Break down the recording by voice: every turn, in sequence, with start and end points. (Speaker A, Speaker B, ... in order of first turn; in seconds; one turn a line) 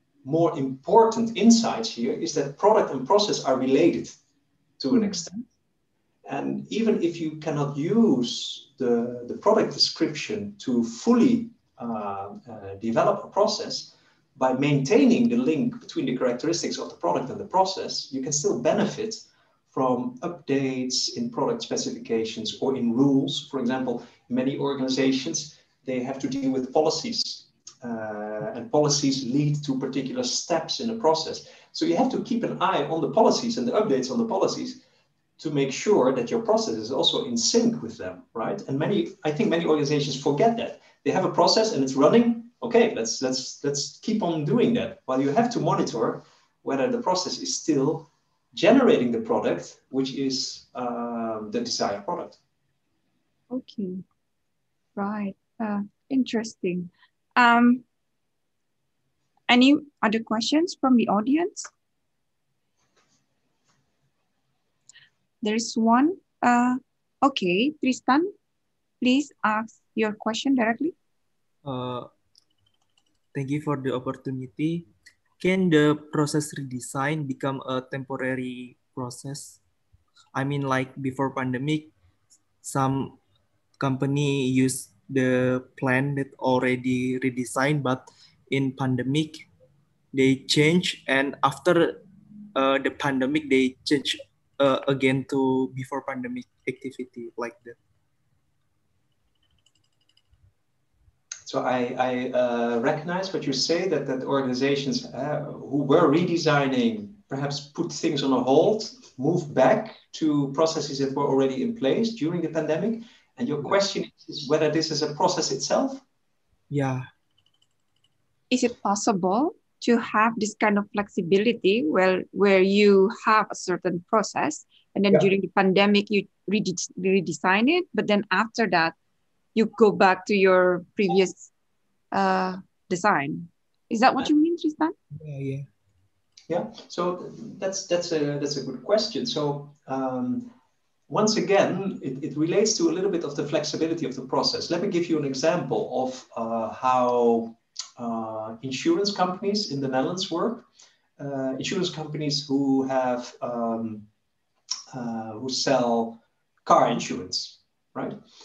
Speaker A: 0.2-4.2
Speaker A: 4.8-5.4
Speaker A: 6.2-34.8
Speaker A: 35.4-52.4
Speaker B: 53.5-54.0
Speaker B: 55.0-57.8
Speaker B: 59.5-61.7
Speaker B: 65.4-68.3
Speaker B: 69.0-70.9
Speaker C: 71.6-72.1
Speaker C: 73.3-74.9
Speaker C: 75.4-79.6
Speaker C: 80.3-81.9
Speaker C: 82.6-83.2
Speaker C: 83.8-89.5
Speaker C: 90.1-92.0
Speaker C: 92.5-97.8
Speaker A: 101.4-116.0
Speaker C: 116.7-117.0
Speaker B: 118.5-128.9
Speaker B: 129.5-131.5
Speaker B: 132.1-134.9
Speaker C: 135.2-135.7
Speaker A: 136.5-140.5
Speaker A: 141.1-150.7
Speaker A: 151.2-154.1
Speaker A: 154.9-158.2